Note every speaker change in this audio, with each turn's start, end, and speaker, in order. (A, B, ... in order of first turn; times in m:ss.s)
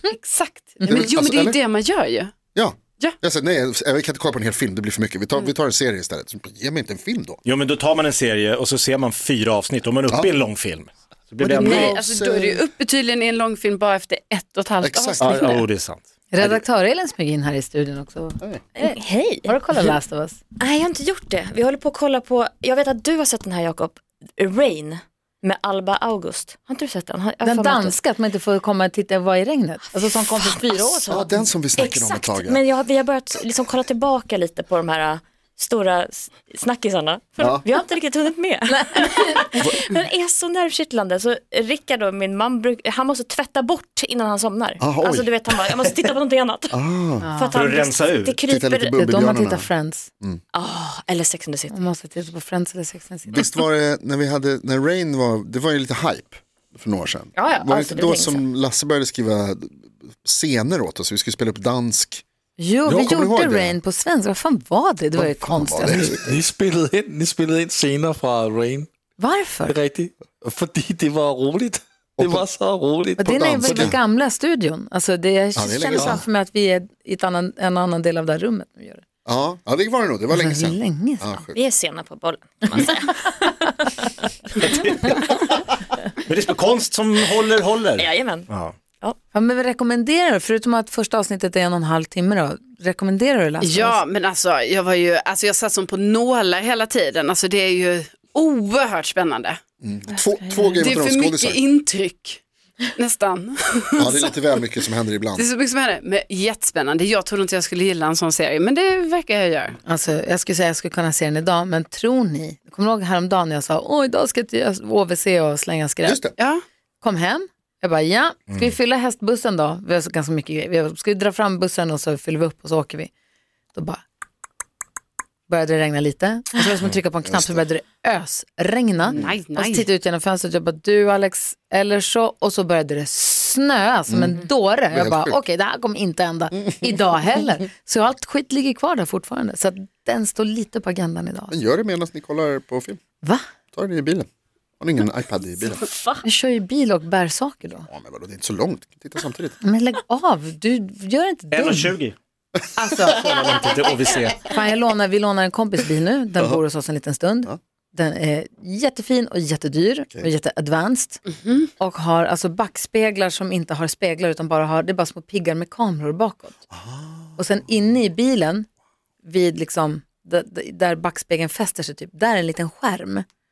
0:00.1-0:02.3 A
0:00.8-0:01.6 B
0:02.5-0:07.4 B
0:07.4-0:12.0 C
0:11.4-0:12.6 B
0:11.5-0:15.7 A
0:14.8-0:15.5 B
0:15.2-0:16.0 C
0:16.3-0:20.4 D
0:18.8-0:19.5 E
0:20.6-0:28.0 E
0:27.4-0:31.5 D
0:30.6-0:46.8 E
0:31.1-0:32.6 B
0:37.4-0:37.6 B
0:38.8-0:39.5 D
0:44.8-0:45.7 B
0:46.7-0:47.3 B
0:47.2-0:47.6 D
0:47.3-0:49.0 E
0:47.5-0:48.4 C
0:48.5-0:50.4 B
0:49.0-0:50.1 D
0:50.5-0:51.7 E
0:51.7-0:53.4 D
0:53.3-1:02.2 B
0:57.4-0:58.4 E
1:02.6-1:06.2 D
1:03.0-1:03.8 B
1:05.2-1:06.2 B
1:05.9-1:08.9 F
1:09.2-1:09.8 D
1:09.7-1:14.0 F
1:12.2-1:12.4 B
1:13.2-1:19.0 D
1:13.3-1:14.0 B
1:15.6-1:16.2 B
1:19.3-1:21.6 B
1:20.3-1:21.4 D
1:21.6-1:23.5 E
1:24.7-1:25.5 C
1:26.3-1:28.8 C
1:28.0-1:28.5 E
1:29.3-1:34.0 D
1:33.6-1:39.6 A
1:39.8-1:41.6 B
1:40.8-1:42.4 A
1:43.0-1:44.3 A
1:44.0-1:45.5 B
1:45.4-1:49.8 A
1:49.8-1:56.2 D
1:56.1-1:56.3 B
1:57.0-2:03.1 D
2:03.7-2:04.0 D
2:05.5-2:21.5 D
2:07.2-2:07.6 B
2:09.2-2:09.9 A
2:14.1-2:14.4 B
2:14.9-2:15.4 B
2:21.5-2:23.0 B
2:23.7-2:24.3 B
2:24.8-2:25.8 B
2:26.2-2:27.9 D
2:27.9-2:29.6 B
2:29.6-2:31.9 D
2:31.5-2:32.2 C
2:32.8-2:33.4 D
2:33.2-2:34.5 C
2:34.4-2:41.2 D
2:41.3-2:41.6 A
2:41.8-2:46.6 D
2:46.7-2:47.4 B
2:47.4-2:48.7 D
2:49.2-2:53.3 D